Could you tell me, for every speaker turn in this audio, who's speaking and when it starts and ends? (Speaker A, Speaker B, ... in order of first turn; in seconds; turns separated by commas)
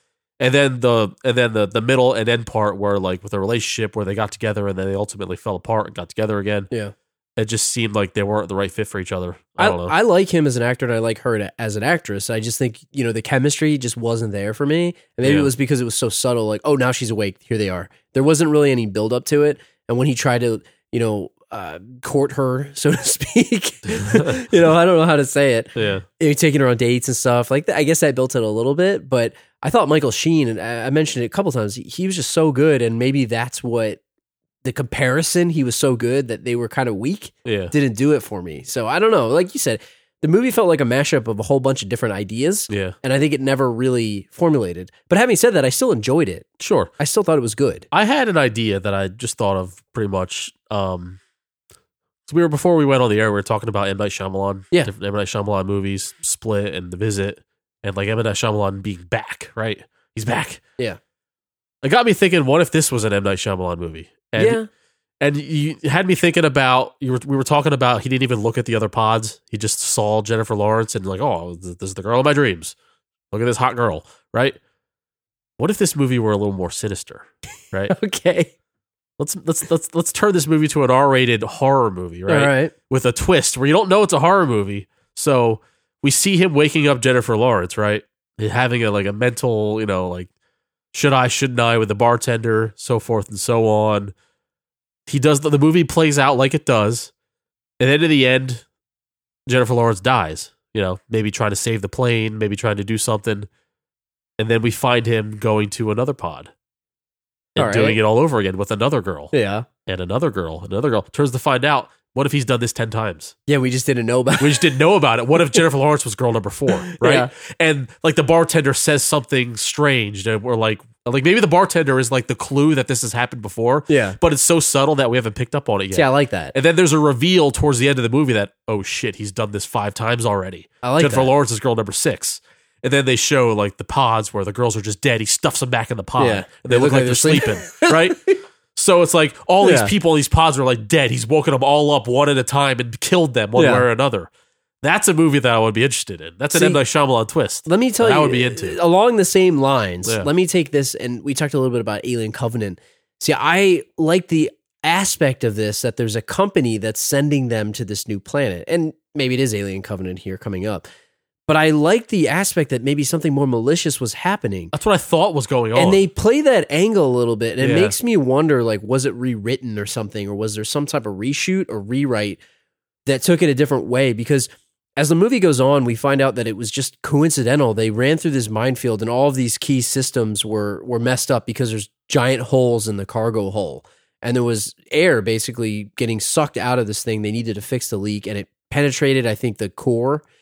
Speaker A: 0.4-6.7, Speaker A: 7.4-9.9, Speaker B: 9.6-34.0, Speaker A: 15.2-15.5, Speaker A: 24.0-24.5, Speaker A: 25.8-26.1, Speaker B: 34.6-46.5, Speaker A: 37.5-37.7, Speaker A: 42.7-43.0, Speaker A: 46.6-46.9, Speaker B: 47.0-47.9, Speaker A: 47.9-51.2, Speaker A: 52.3-60.6, Speaker A: 61.8-64.6, Speaker B: 64.4-64.7, Speaker A: 65.2-72.8, Speaker A: 73.3-74.6, Speaker A: 75.6-77.9, Speaker B: 77.9-78.5, Speaker A: 79.2-90.3, Speaker B: 82.3-82.7, Speaker A: 90.9-94.1, Speaker A: 95.1-97.1, Speaker A: 97.8-98.6, Speaker A: 99.5-103.5, Speaker A: 104.4-106.5, Speaker A: 107.5-109.3, Speaker B: 107.6-108.0, Speaker B: 109.3-109.7, Speaker A: 109.9-113.3, Speaker B: 113.5-114.8, Speaker A: 114.4-138.2, Speaker B: 116.7-117.3, Speaker B: 123.9-124.2, Speaker B: 125.9-126.5, Speaker B: 130.8-131.3, Speaker B: 136.2-138.4, Speaker A: 138.8-144.3, Speaker B: 139.6-139.9, Speaker B: 143.6-143.9, Speaker A: 144.8-148.8, Speaker B: 146.5-146.8, Speaker B: 147.7-160.8, Speaker B: 161.5-164.7, Speaker A: 164.7-166.0, Speaker B: 165.8-172.4, Speaker A: 167.6-168.0, Speaker B: 173.1-190.2